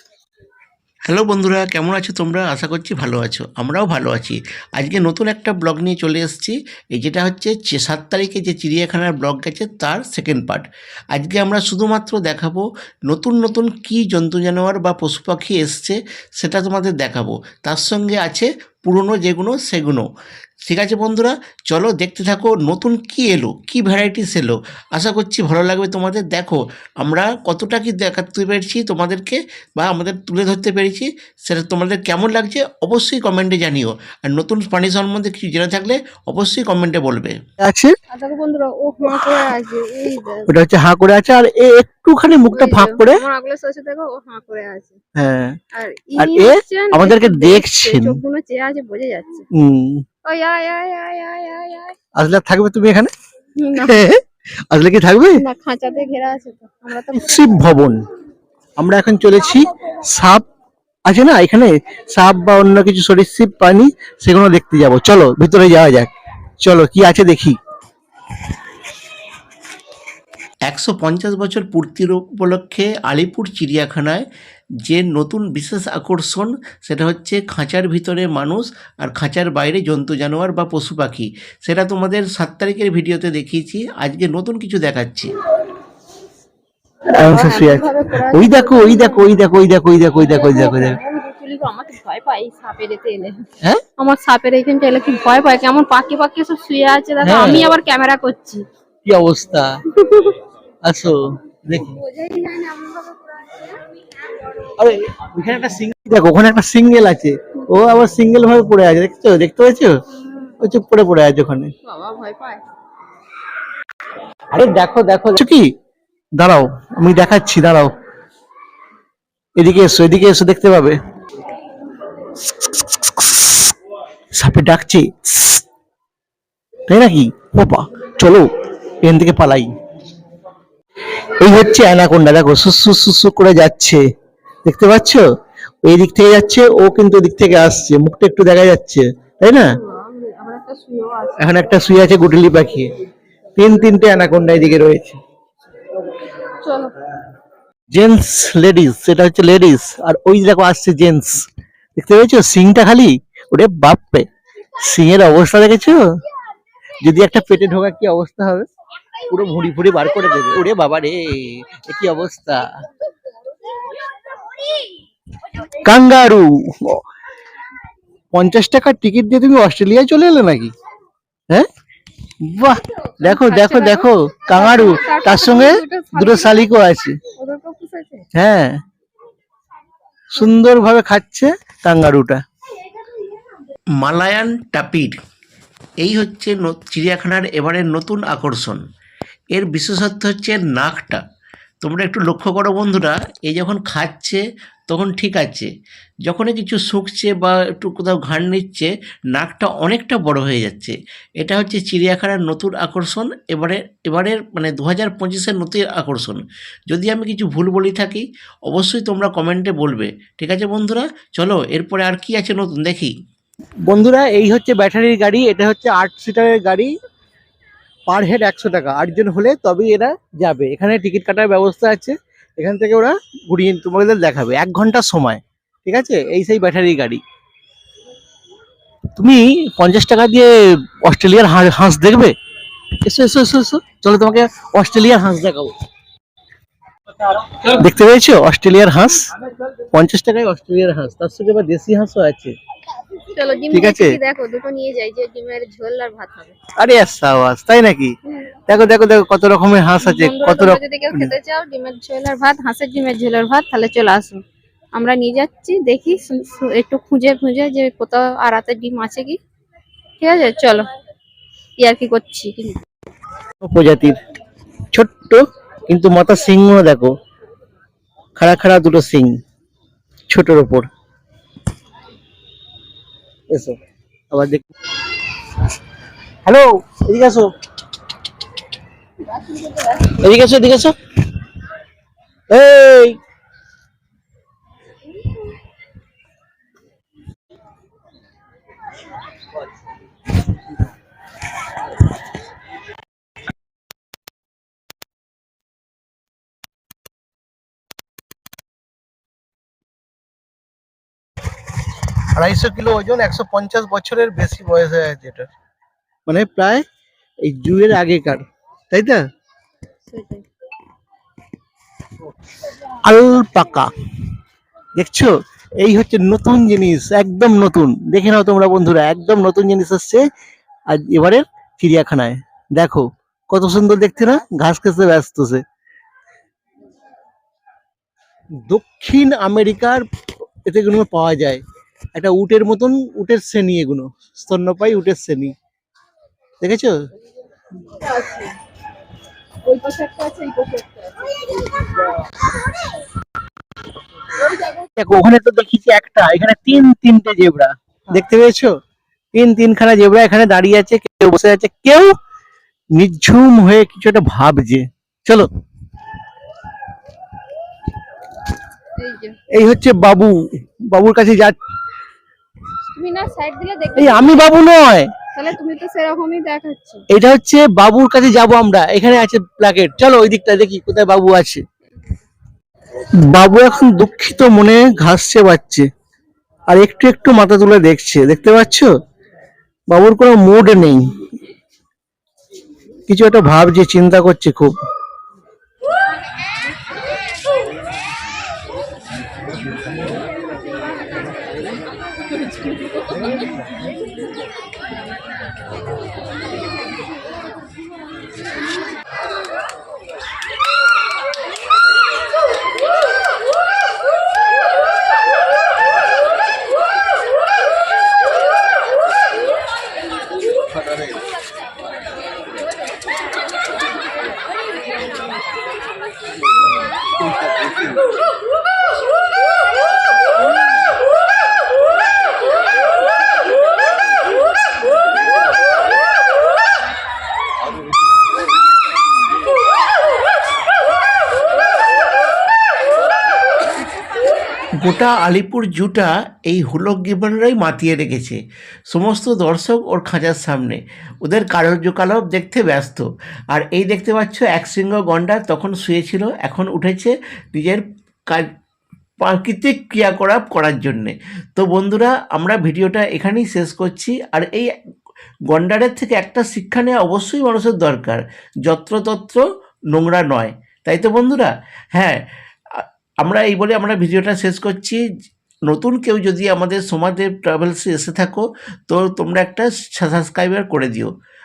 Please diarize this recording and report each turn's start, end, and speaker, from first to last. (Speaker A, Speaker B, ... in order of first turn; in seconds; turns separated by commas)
Speaker A: 1.1-20.1, Speaker A: 20.6-37.4, Speaker B: 37.6-38.0, Speaker C: 38.1-40.5, Speaker B: 40.5-43.2, Speaker C: 42.5-45.0, Speaker B: 45.2-45.6, Speaker C: 45.7-49.5, Speaker B: 46.2-48.1, Speaker B: 49.5-50.0, Speaker C: 50.2-52.0, Speaker B: 52.2-53.1, Speaker C: 53.6-54.1, Speaker B: 53.8-55.4, Speaker C: 55.4-57.7, Speaker B: 57.1-58.0, Speaker B: 58.8-60.5, Speaker B: 61.1-66.1, Speaker B: 66.6-67.6, Speaker A: 70.7-74.2, Speaker A: 74.8-85.3, Speaker C: 87.1-89.3, Speaker B: 87.2-91.0, Speaker C: 90.2-93.4, Speaker C: 94.0-98.6, Speaker B: 97.2-97.8, Speaker B: 99.0-100.2, Speaker B: 100.8-101.9, Speaker C: 101.9-103.8, Speaker B: 104.8-110.0, Speaker B: 110.6-111.7, Speaker C: 111.8-112.6, Speaker B: 114.5-115.7, Speaker B: 116.4-117.9, Speaker B: 119.6-121.0, Speaker B: 122.7-123.3, Speaker B: 124.4-125.6, Speaker B: 126.9-128.5, Speaker B: 129.0-129.7, Speaker B: 131.4-134.0, Speaker B: 134.7-135.2, Speaker B: 135.8-139.7, Speaker C: 139.6-141.7, Speaker B: 141.4-142.9, Speaker B: 143.6-145.2, Speaker C: 146.6-146.9, Speaker B: 147.9-154.3, Speaker B: 154.8-156.1, Speaker B: 157.0-158.7, Speaker B: 159.3-162.7, Speaker B: 165.8-167.0, Speaker B: 168.3-170.7, Speaker B: 172.4-177.2, Speaker C: 173.2-176.7, Speaker C: 177.4-178.2, Speaker B: 178.3-178.8, Speaker B: 180.3-182.4, Speaker A: 184.0-185.2, Speaker A: 186.0-188.8, Speaker A: 189.5-191.2, Speaker A: 191.8-195.7, Speaker A: 196.3-213.1, Speaker B: 213.9-216.9, Speaker B: 218.1-227.2, Speaker B: 229.2-232.3, Speaker B: 233.0-235.7, Speaker B: 237.4-239.3, Speaker B: 239.9-242.5, Speaker C: 243.3-246.6, Speaker B: 243.7-244.2, Speaker B: 246.8-248.1, Speaker B: 248.7-251.3, Speaker C: 250.0-254.4, Speaker C: 254.9-259.4, Speaker C: 260.2-260.9, Speaker C: 261.8-262.8, Speaker B: 263.6-264.2, Speaker B: 264.9-267.1, Speaker B: 268.4-269.4, Speaker B: 270.3-270.9, Speaker B: 273.5-273.8, Speaker B: 274.3-274.7, Speaker B: 276.4-277.5, Speaker B: 279.9-280.9, Speaker B: 282.5-283.2, Speaker B: 302.3-305.5, Speaker B: 306.3-306.8, Speaker B: 307.4-309.2, Speaker C: 310.1-310.4, Speaker B: 313.0-313.9, Speaker B: 315.0-320.3, Speaker B: 320.9-325.6, Speaker B: 328.7-330.0, Speaker B: 330.7-331.6, Speaker B: 332.1-335.6, Speaker B: 336.6-336.9, Speaker C: 337.9-338.5, Speaker C: 339.7-342.0, Speaker B: 345.0-348.8, Speaker B: 349.3-352.1, Speaker B: 353.0-355.5, Speaker C: 359.0-359.4, Speaker B: 359.5-361.6, Speaker C: 362.9-364.5, Speaker B: 364.0-365.1, Speaker C: 365.3-367.0, Speaker B: 367.1-371.6, Speaker B: 373.2-375.9, Speaker B: 376.7-378.9, Speaker B: 379.9-381.1, Speaker B: 383.1-384.7, Speaker A: 434.8-448.5, Speaker A: 449.2-454.7, Speaker A: 455.5-465.0, Speaker A: 465.7-471.1